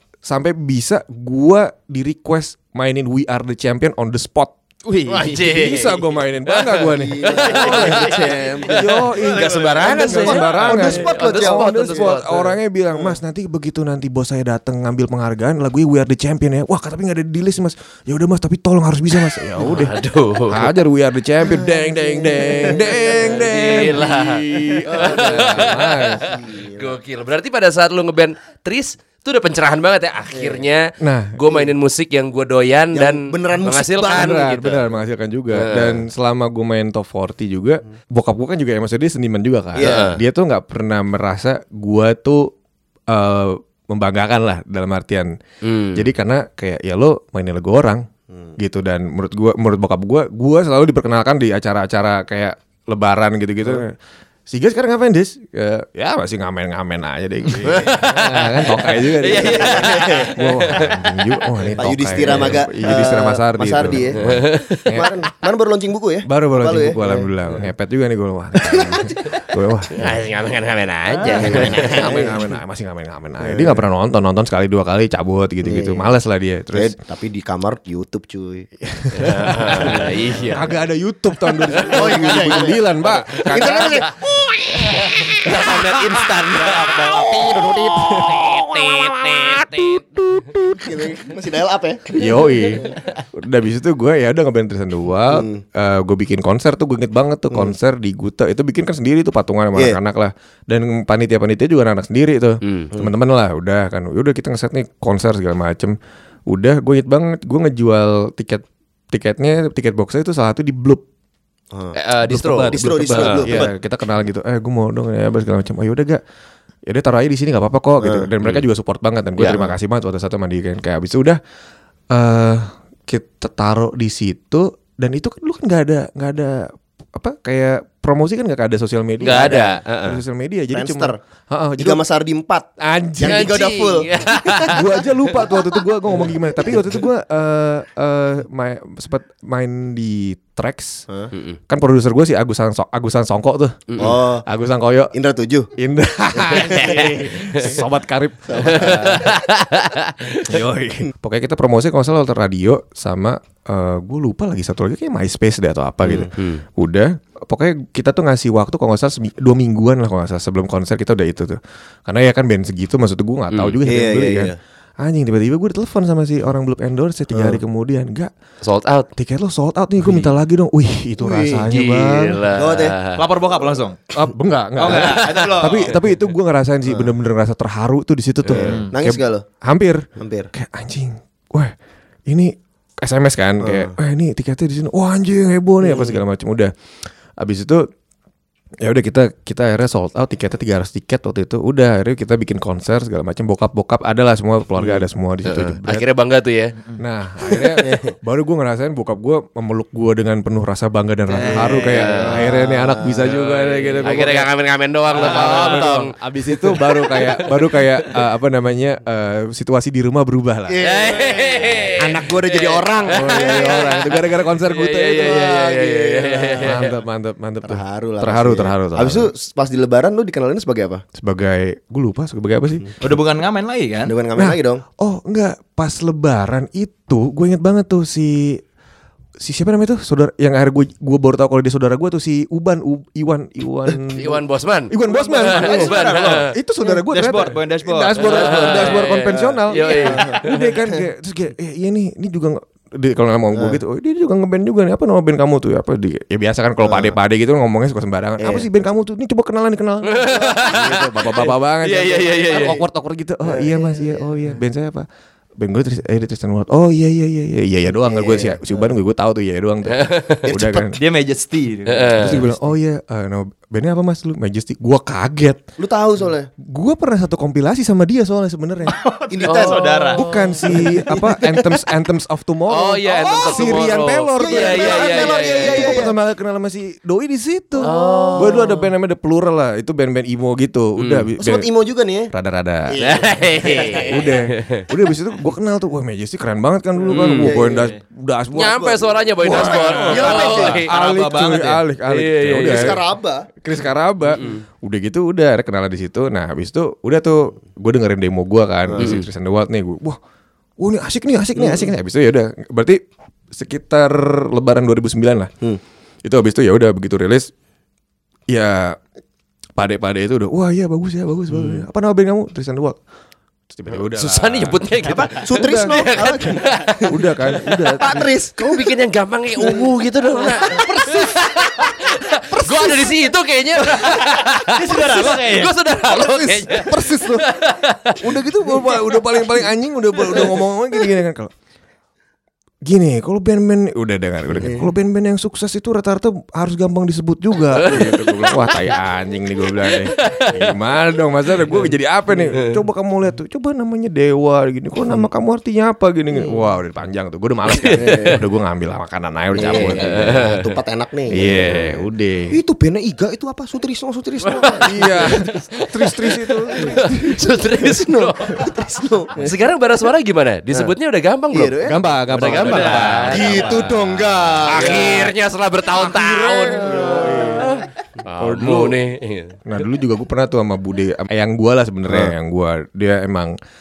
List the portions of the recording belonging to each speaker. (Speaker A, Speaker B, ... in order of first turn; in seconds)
Speaker A: 0.2-4.5, 5.1-8.2, 8.7-20.0, 20.5-26.3, 31.0-31.4, 34.0-42.5, 43.1-45.3, 45.9-48.1, 48.6-54.0, 54.5-65.1, 66.3-70.1, 71.3-77.0, 78.8-91.1, 92.1-106.0, 106.5-111.0, 112.3-116.2, 116.9-121.4, 122.1-132.0, 132.8-133.6, 134.6-141.1, 141.7-145.1, 145.8-149.3, 150.5-168.3, 169.2-172.5, 174.1-181.7, 182.3-186.7, 187.4-187.9, 188.8-196.1, 197.0-204.5, 205.1-210.8, 213.1-215.5, 216.6-219.3, 221.2-222.9, 224.4-228.6, 229.4-255.1, 255.6-261.0, 262.2-265.6, 266.6-269.0, 270.1-281.7, 282.3-283.0, 284.0-293.0, 293.6-300.2, 300.8-303.0, 303.5-305.5, 306.2-307.5, 308.5-309.0, 309.8-313.0, 313.7-314.9, 315.5-316.5, 317.1-318.3, 326.3-326.7, 328.2-331.5, 332.9-350.6, 351.3-352.6, 354.8-357.2, 361.8-364.1, 364.7-365.3, 365.9-367.8, 368.4-369.0, 369.7-373.5
Speaker B: 5.1-12.5, 19.6-20.7, 22.9-34.9, 35.5-36.0, 39.8-40.2, 45.6-46.1, 57.6-61.0, 64.2-65.0, 69.9-72.2, 79.2-80.7, 81.7-82.2, 83.3-84.0, 84.8-87.7, 102.6-102.9, 112.0-113.6, 119.4-119.7, 129.2-130.2, 133.2-134.8, 141.3-141.6, 146.6-147.8, 148.7-150.6, 156.2-156.6, 163.5-163.8, 168.6-169.1, 171.7-173.3, 174.9-175.7, 178.5-178.8, 195.4-196.8, 201.7-202.6, 203.2-207.8, 210.8-216.9, 234.1-236.5, 238.2-240.8, 250.1-252.8, 259.9-260.4, 261.9-262.4, 269.5-270.7, 272.7-276.1, 277.8-278.8, 281.0-281.3, 283.0-284.9, 287.1-287.6, 288.5-290.9, 292.1-293.0, 294.4-294.6, 299.0-299.3, 314.0-317.9, 318.6-328.4, 337.7-338.9, 339.8-340.8, 347.9-348.1, 349.6-350.6, 351.4-352.1, 354.4-358.7, 359.4-361.8, 362.3-363.9, 364.7-369.6
Speaker C: 6.9-8.9, 9.8-12.2, 21.5-23.7, 24.8-27.0, 30.3-30.6, 32.9-34.5, 39.8-40.1, 59.3-60.3, 61.8-64.2, 64.9-67.3, 68.6-69.2, 71.2-72.5, 73.4-73.8, 75.6-76.1, 76.7-78.7, 79.8-80.2, 81.8-84.1, 85.5-87.6, 90.7-92.8, 95.3-95.6, 112.7-113.7, 118.0-118.3, 129.2-129.7, 130.7-131.2, 131.8-132.7, 133.2-135.6, 136.3-136.8, 144.0-144.5, 145.1-145.7, 146.4-147.1, 148.5-149.3, 163.8-164.6, 167.3-167.6, 171.2-171.7, 172.5-173.0, 178.9-179.4, 180.2-180.5, 183.6-183.9, 185.8-186.2, 197.8-198.1, 202.3-203.3, 205.2-206.0, 210.7-214.0, 215.2-216.9, 217.6-221.0, 224.1-224.8, 239.7-240.4, 243.5-243.8, 246.8-247.2, 248.4-248.7, 250.4-251.5, 253.4-254.3, 258.0-258.9, 260.4-260.9, 265.8-266.5, 269.3-269.8, 273.1-276.1, 277.8-278.5, 281.4-282.3, 282.9-284.3, 287.4-287.9, 288.8-290.8, 292.6-293.5, 298.9-299.2, 301.6-301.9, 311.5-311.8, 315.1-317.1, 318.0-318.9, 319.6-323.3, 326.1-327.5, 334.6-334.9, 347.9-348.4, 349.5-351.9, 352.5-355.5, 356.8-359.6, 361.5-365.3, 366.8-367.7, 372.1-372.3
Speaker D: 9.2-10.3, 86.3-87.3, 173.2-174.0, 174.8-176.1, 178.6-178.9, 201.3-202.4, 223.0-224.1, 235.1-239.1, 260.9-262.5, 268.9-271.4, 287.2-287.9, 289.6-291.8, 324.6-325.8, 362.5-363.8